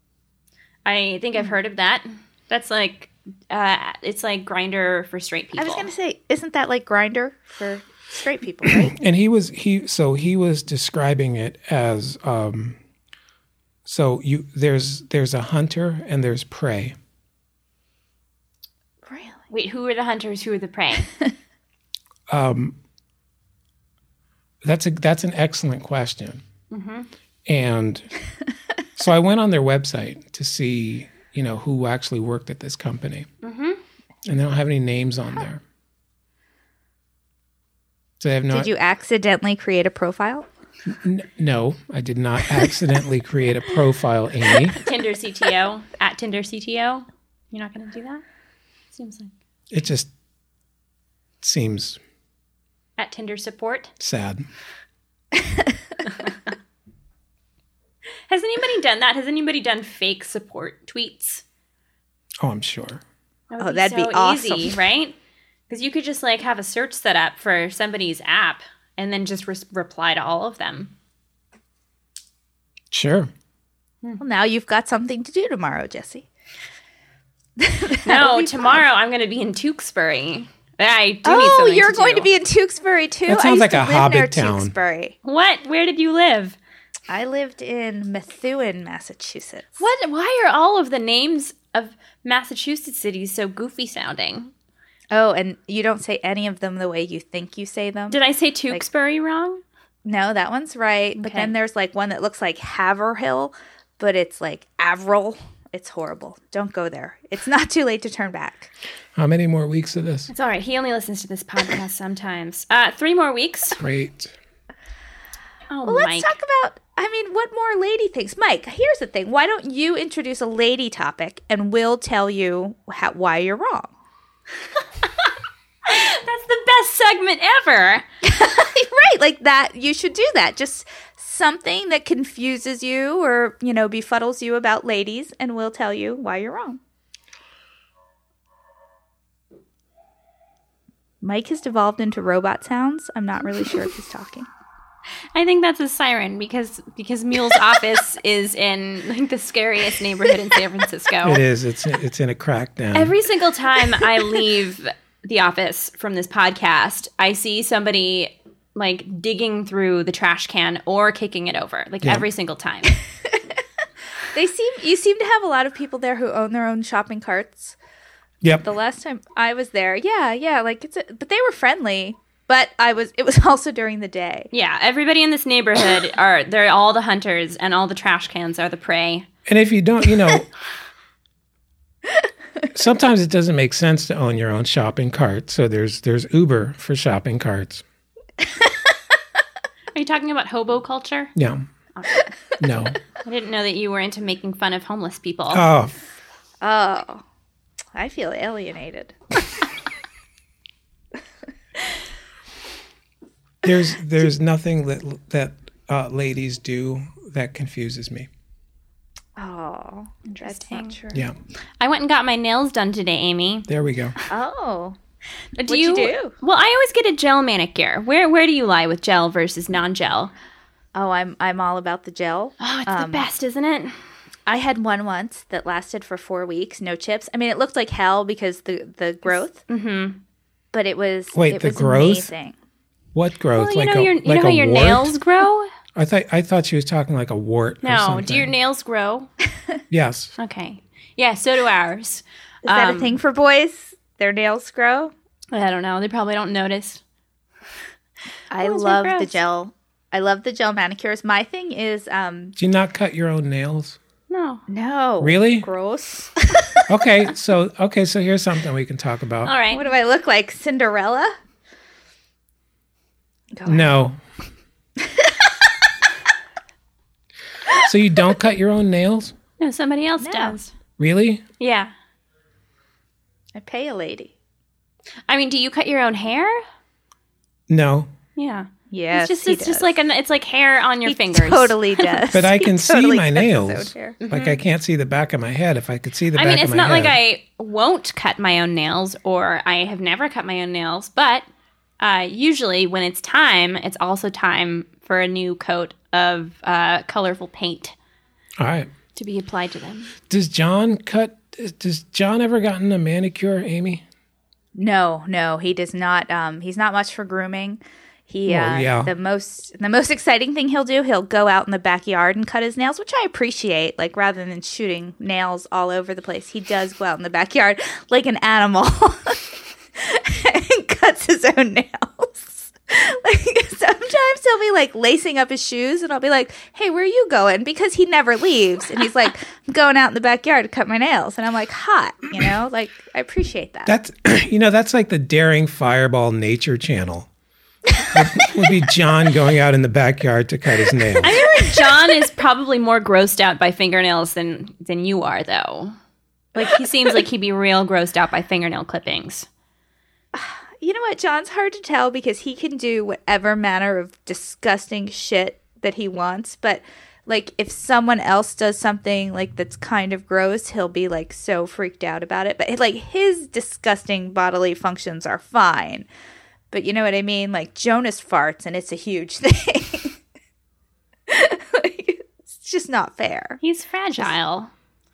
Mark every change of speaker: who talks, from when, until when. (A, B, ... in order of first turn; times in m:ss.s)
0:00.8-0:05.9 A
0:05.6-0:09.0 B
0:08.7-0:12.8 C
0:13.8-0:17.0 C
0:19.0-0:19.4 B
0:19.5-0:21.1 A
0:22.3-0:22.7 C
0:24.6-0:26.4 C
0:26.7-0:27.1 A
0:27.4-0:28.1 C
0:29.0-0:33.3 C
0:33.4-0:33.8 A
0:34.2-0:35.6 C
0:38.2-0:38.7 C
0:38.5-0:40.5 B
0:40.9-0:44.8 C
0:44.7-0:48.2 A
0:48.9-0:49.3 A
0:49.7-0:50.1 C
0:51.4-0:52.0 C
0:53.0-0:53.9 A
0:54.0-0:54.4 C
0:56.0-0:56.3 A
0:58.3-1:01.4 A
1:02.4-1:03.0 C
1:03.5-1:05.1 A
1:03.6-1:04.8 B
1:05.7-1:10.9 A
1:12.9-1:13.3 C
1:14.2-1:16.2 B
1:17.6-1:18.8 B
1:18.0-1:22.3 A
1:21.2-1:25.2 B
1:23.3-1:24.7 C
1:25.2-1:26.6 A
1:27.1-1:29.8 B
1:29.8-1:34.5 A
1:35.1-1:38.2 B
1:38.1-1:39.6 A
1:40.0-1:48.7 B
1:41.2-1:41.5 A
1:49.1-1:50.3 C
1:50.3-1:53.8 A
1:53.8-1:54.3 C
1:55.7-1:56.4 A
1:55.8-2:03.9 B
2:05.8-2:08.0 A
2:08.2-2:16.8 B
2:21.2-2:24.5 B
2:25.3-2:31.4 A
2:31.2-2:33.2 C
2:32.9-2:43.0 A
2:44.3-2:47.8 B
2:48.6-2:54.5 B
2:54.5-2:59.3 A
2:59.4-3:00.5 C
3:02.7-3:07.8 C
3:09.9-3:11.3 A
3:11.4-3:11.6 C
3:11.9-3:12.3 A
3:12.6-3:13.0 C
3:13.2-3:15.6 A
3:15.5-3:16.0 C
3:16.6-3:17.2 B
3:17.9-3:19.2 B
3:23.6-3:28.3 C
3:29.4-3:31.2 B
3:30.2-3:31.0 A
3:31.8-3:33.7 A
3:33.7-3:34.1 C
3:34.3-3:35.0 B
3:35.6-3:40.3 A
3:35.7-3:36.3 B
3:40.9-3:43.2 B
3:42.6-3:43.9 A
3:44.5-3:49.6 B
3:49.7-3:50.2 A
3:50.7-3:52.5 B
3:51.3-3:52.3 C
3:53.1-3:55.1 C
3:53.5-3:55.7 A
3:55.9-3:58.5 C
3:57.8-3:59.3 A
3:59.9-4:00.3 C
4:00.4-4:03.2 A
4:02.6-4:05.1 B
4:05.5-4:07.0 A
4:08.5-4:12.6 B
4:08.6-4:09.3 A
4:12.6-4:14.0 C
4:14.3-4:14.6 A
4:14.7-4:16.9 B
4:15.2-4:15.7 C
4:16.9-4:19.5 C
4:19.4-4:19.8 A
4:19.7-4:21.3 B
4:23.5-4:23.9 B
4:23.6-4:24.2 C
4:25.0-4:25.4 B
4:27.8-4:29.4 C
4:29.6-4:30.7 A
4:30.2-4:30.6 B
4:31.0-4:31.4 C
4:31.6-4:31.9 A
4:33.5-4:34.3 B
4:35.3-4:36.6 A
4:37.7-4:38.1 C
4:38.4-4:42.2 A
4:38.9-4:40.0 B
4:41.0-4:44.2 B
4:42.3-4:47.1 C
4:44.2-4:44.6 A
4:46.3-4:51.4 A
4:52.0-4:57.9 A
4:58.6-4:58.9 C
4:59.1-5:00.1 A
5:00.3-5:04.0 C
5:04.7-5:33.9 B
5:08.4-5:09.1 C
5:33.9-5:37.3 C
5:38.0-5:38.7 B
5:38.1-5:41.3 C
5:41.0-5:42.2 B
5:41.2-5:45.9 A
5:46.5-5:49.5 A
5:50.3-6:06.1 B
6:06.7-6:10.2 B
6:11.3-6:13.6 B
6:13.6-6:14.7 A